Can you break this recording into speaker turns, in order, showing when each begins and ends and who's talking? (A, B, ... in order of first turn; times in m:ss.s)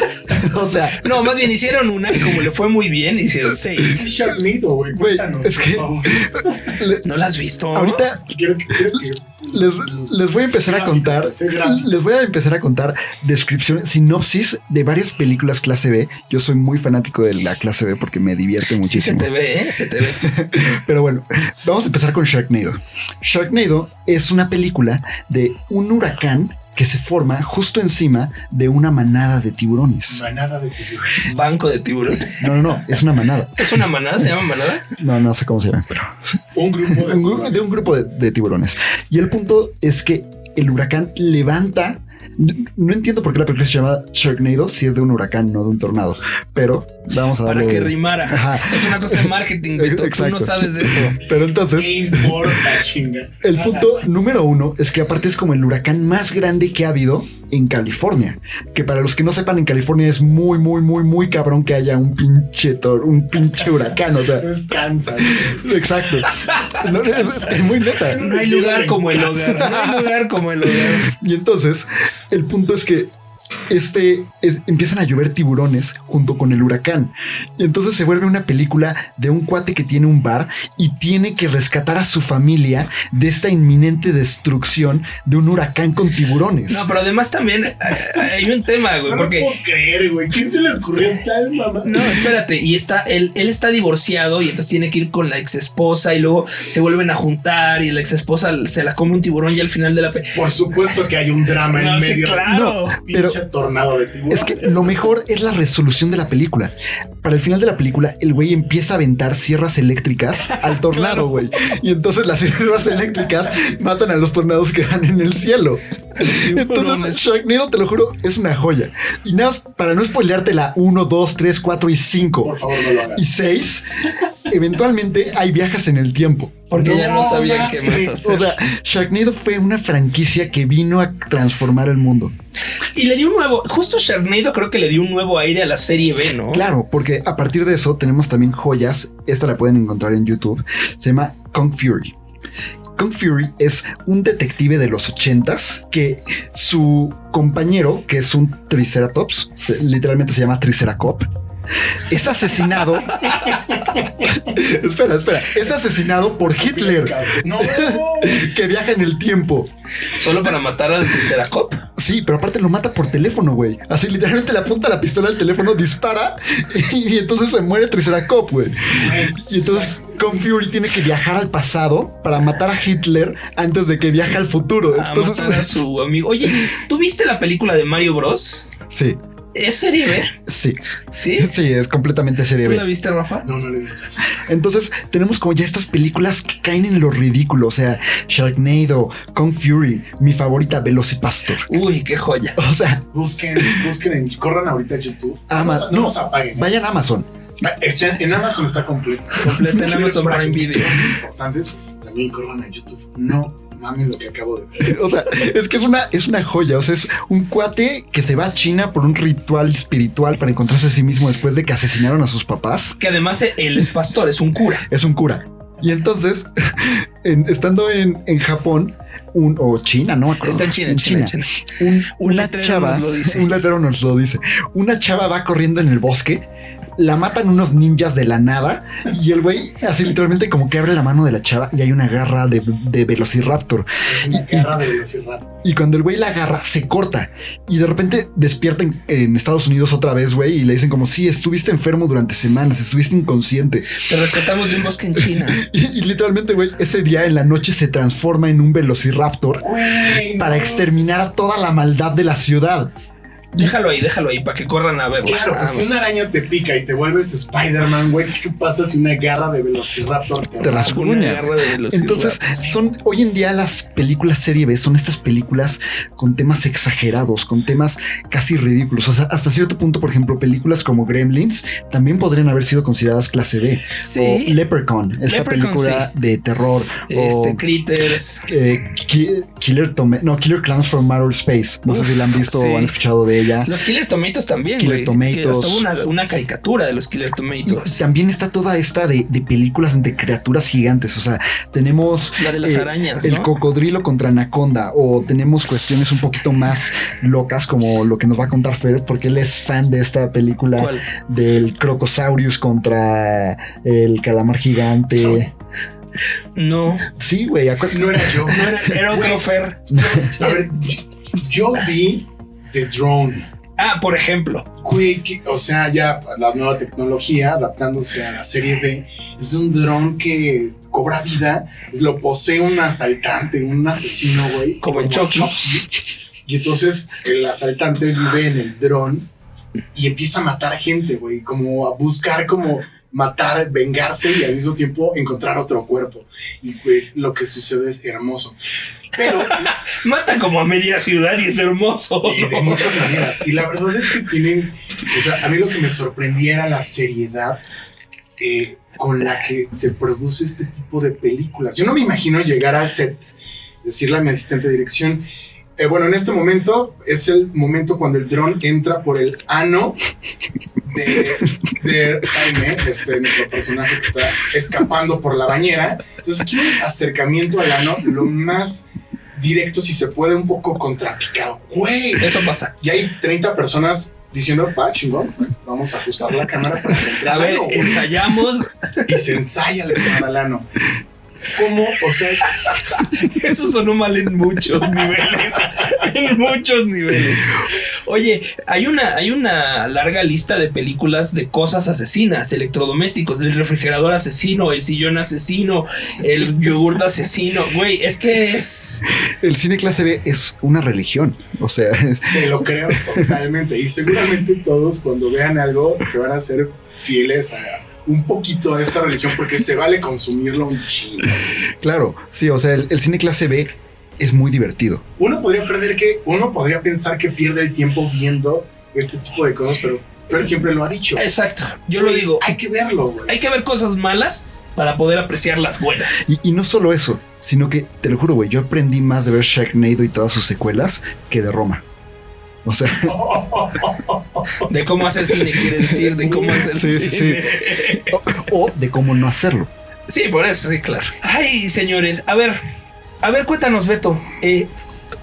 0:00.3-0:01.1 A
0:01.0-0:04.0 B
0:03.8-0:06.8 C
0:04.9-0:07.0 A
0:07.0-0:08.0 B
0:07.7-0:19.3 A
0:08.3-0:11.9 C
0:18.8-0:20.2 B
0:20.2-0:30.2 A
0:30.1-0:31.3 C
0:31.2-0:32.4 B
0:32.3-0:33.8 A
0:33.6-0:34.9 B
0:35.0-0:52.6 A
0:36.6-0:37.8 C
0:47.4-0:51.2 B
0:51.7-0:54.1 C
0:53.4-1:04.5 A
1:04.3-1:05.8 C
1:05.2-1:08.2 A
1:06.4-1:06.8 B
1:07.1-1:09.6 C
1:08.2-1:11.1 B
1:09.6-1:13.1 A
1:13.7-1:26.9 A
1:26.7-1:29.5 B
1:29.0-1:32.1 C
1:31.8-1:40.4 B
1:40.3-1:45.1 C
1:41.7-1:43.0 B
1:42.5-1:43.4 A
1:44.3-2:02.6 A
1:50.5-1:51.5 B
1:56.2-1:57.2 B
2:02.4-2:03.2 C
2:03.1-2:03.9 A
2:04.5-2:06.6 A
2:06.7-2:08.6 B
2:06.7-2:08.4 C
2:08.2-2:12.3 A
2:12.9-2:16.7 B
2:16.5-2:22.2 A
2:23.0-2:31.3 A
2:32.1-2:39.7 A
2:36.5-2:38.5 C
2:40.1-2:41.8 B
2:42.0-2:55.7 A
2:48.9-2:50.4 C
2:54.9-2:58.7 B
2:58.9-2:59.2 A
2:59.6-3:00.4 B
3:00.5-3:00.8 A
3:01.1-3:01.5 B
3:01.4-3:02.8 A
3:02.6-3:03.5 B
3:03.4-3:04.1 C
3:04.5-3:11.7 A
3:11.7-3:12.6 B
3:12.6-3:13.1 A
3:13.1-3:16.7 C
3:15.5-3:17.3 A
3:17.6-3:25.0 C
3:19.4-3:21.0 B
3:24.8-3:33.0 A
3:33.0-3:34.9 B
3:34.9-3:54.8 A
3:40.4-3:41.5 B
3:42.1-3:43.6 B
3:54.0-3:55.6 C
3:55.6-4:04.0 A
4:04.0-4:05.6 B
4:05.2-4:12.9 A
4:09.6-4:10.9 C
4:13.6-4:16.0 B
4:15.2-4:21.0 C
4:20.6-4:37.6 A
4:20.8-4:22.4 B
4:22.5-4:22.8 C
4:34.0-4:34.6 B
4:35.3-4:36.1 B
4:37.1-4:38.4 B
4:38.5-4:43.7 A
4:41.9-4:42.9 B
4:43.6-4:48.0 B
4:44.8-4:45.8 A
4:47.7-5:05.5 A
4:52.4-4:53.5 B
5:00.8-5:01.1 B
5:06.6-5:07.1 B
5:07.1-5:08.6 A
5:07.9-5:13.5 C
5:08.5-5:10.6 B
5:09.9-5:10.3 A
5:13.8-5:14.7 B
5:14.8-5:25.9 C
5:24.8-5:25.6 B
5:26.5-5:29.3 C
5:30.0-5:38.6 C
5:39.1-5:39.7 C
5:39.2-5:43.1 B
5:42.2-5:47.6 C
5:48.4-5:55.2 C
5:55.8-6:00.0 C
6:00.8-6:18.1 C
6:12.2-6:12.7 B
6:17.2-6:19.2 B
6:19.1-6:20.7 C
6:21.5-6:22.5 C
6:22.7-6:39.0 B
6:39.2-6:43.3 A
6:42.3-6:51.7 C
6:51.8-6:55.0 A
6:55.2-7:01.3 C
7:01.2-7:02.5 B
7:02.0-7:03.4 C
7:03.3-7:06.2 B
7:06.2-7:11.8 A
7:12.6-7:13.2 A
7:13.0-7:14.6 C
7:14.6-7:18.2 B
7:16.2-7:16.7 C
7:16.6-7:19.7 A
7:20.1-7:22.6 B
7:23.2-7:24.7 B